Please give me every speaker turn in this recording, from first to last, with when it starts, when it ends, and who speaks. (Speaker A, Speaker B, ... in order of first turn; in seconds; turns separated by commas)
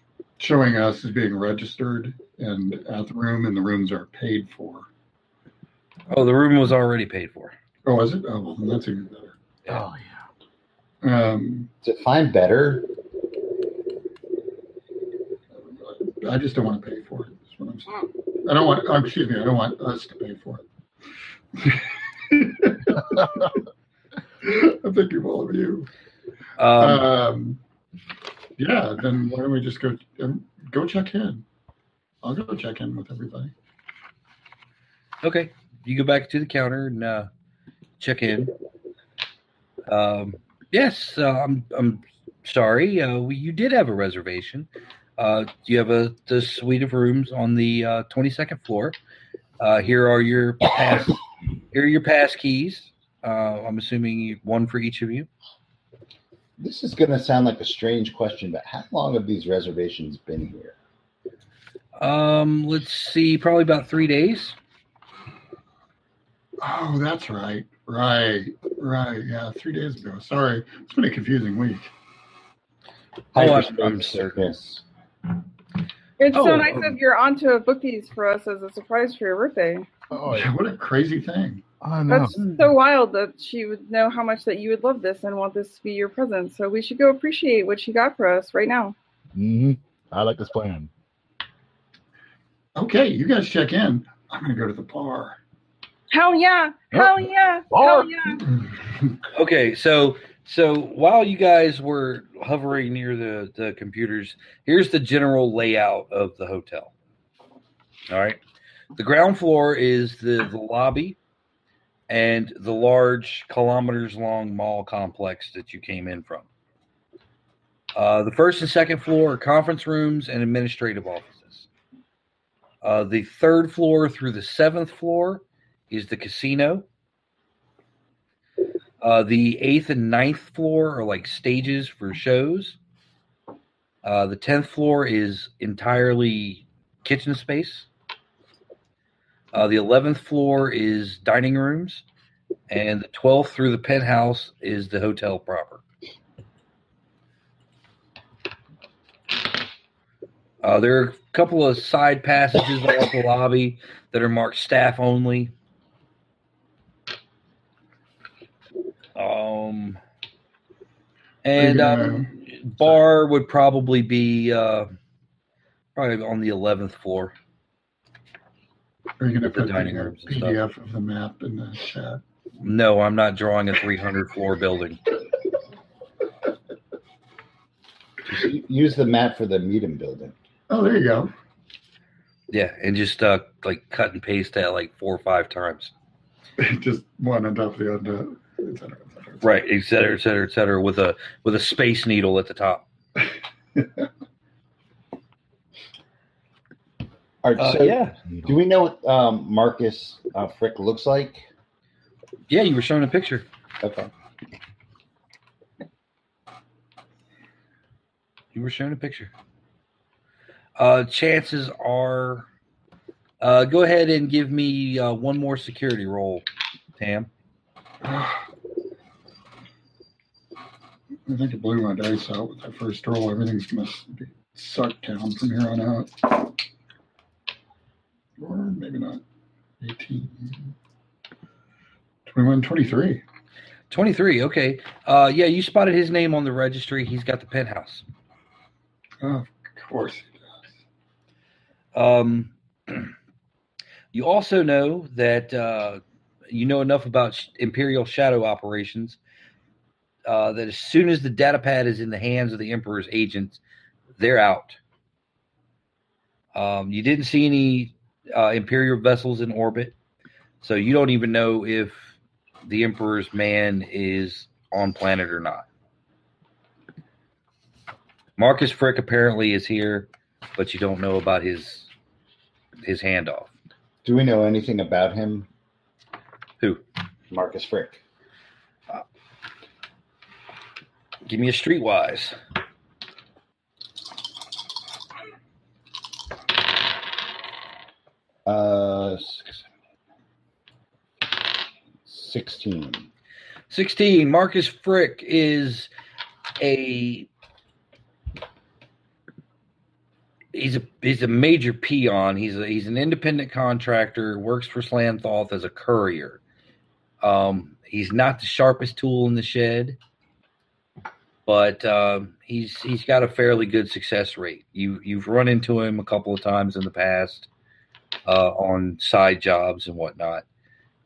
Speaker A: 0.4-4.9, Speaker B: 6.1-7.5, Speaker A: 7.8-9.3, Speaker C: 9.7-10.2, Speaker A: 11.0-11.7, Speaker D: 11.8-12.9, Speaker A: 15.6-20.6, Speaker A: 21.6-23.6, Speaker A: 24.4-25.9, Speaker B: 26.6-27.1, Speaker A: 26.8-27.6, Speaker A: 28.6-31.4, Speaker A: 32.2-33.5, Speaker B: 35.2-37.3, Speaker B: 38.0-38.5, Speaker B: 39.9-49.0, Speaker B: 49.6-55.3, Speaker D: 56.6-60.8, Speaker B: 62.0-64.6, Speaker A: 66.6-71.9, Speaker B: 73.3-74.4, Speaker D: 73.3-74.8, Speaker E: 76.2-79.9, Speaker B: 76.3-77.0, Speaker C: 80.1-80.5, Speaker A: 80.2-81.6, Speaker C: 81.8-82.4, Speaker E: 82.1-89.0, Speaker B: 82.4-82.7, Speaker C: 89.3-90.9, Speaker A: 92.8-95.4, Speaker E: 96.1-98.5, Speaker C: 96.9-98.1, Speaker A: 98.5-99.2, Speaker B: 99.3-106.9, Speaker B: 108.1-108.4, Speaker B: 109.0-111.2, Speaker B: 112.1-116.5, Speaker B: 118.0-121.7, Speaker B: 122.8-126.9, Speaker B: 129.0-132.8, Speaker B: 134.0-137.9, Speaker B: 139.5-142.1, Speaker B: 142.7-145.8, Speaker B: 150.6-155.5, Speaker B: 159.2-160.0, Speaker B: 161.4-164.9, Speaker A: 161.6-162.3, Speaker B: 165.9-167.3, Speaker A: 169.2-172.2, Speaker B: 169.4-170.6, Speaker B: 172.6-175.0, Speaker D: 178.2-180.3, Speaker A: 180.7-181.3, Speaker B: 182.5-185.9, Speaker A: 186.6-189.6, Speaker B: 189.4-192.8, Speaker A: 193.8-194.0, Speaker D: 197.4-201.5, Speaker B: 197.6-198.2, Speaker B: 202.5-203.5, Speaker D: 203.8-204.1, Speaker B: 208.5-209.3, Speaker B: 210.8-212.5, Speaker B: 213.4-216.5, Speaker B: 217.0-217.3, Speaker A: 218.0-218.4, Speaker A: 221.3-226.5, Speaker A: 228.4-229.2, Speaker A: 229.8-230.7, Speaker A: 232.3-233.2, Speaker B: 233.9-238.1, Speaker A: 239.2-240.5, Speaker B: 241.9-243.1, Speaker B: 244.1-249.2, Speaker B: 250.3-253.6, Speaker B: 254.2-254.8, Speaker B: 256.6-259.9, Speaker B: 260.6-265.7, Speaker B: 268.4-271.9, Speaker B: 272.8-273.5, Speaker D: 274.0-275.5, Speaker D: 277.3-278.0, Speaker B: 281.3-282.4, Speaker D: 288.5-289.6, Speaker D: 292.1-293.1, Speaker B: 293.7-295.9, Speaker B: 296.6-297.3, Speaker B: 300.5-306.4, Speaker B: 307.2-310.0, Speaker B: 311.5-317.5, Speaker B: 318.3-320.4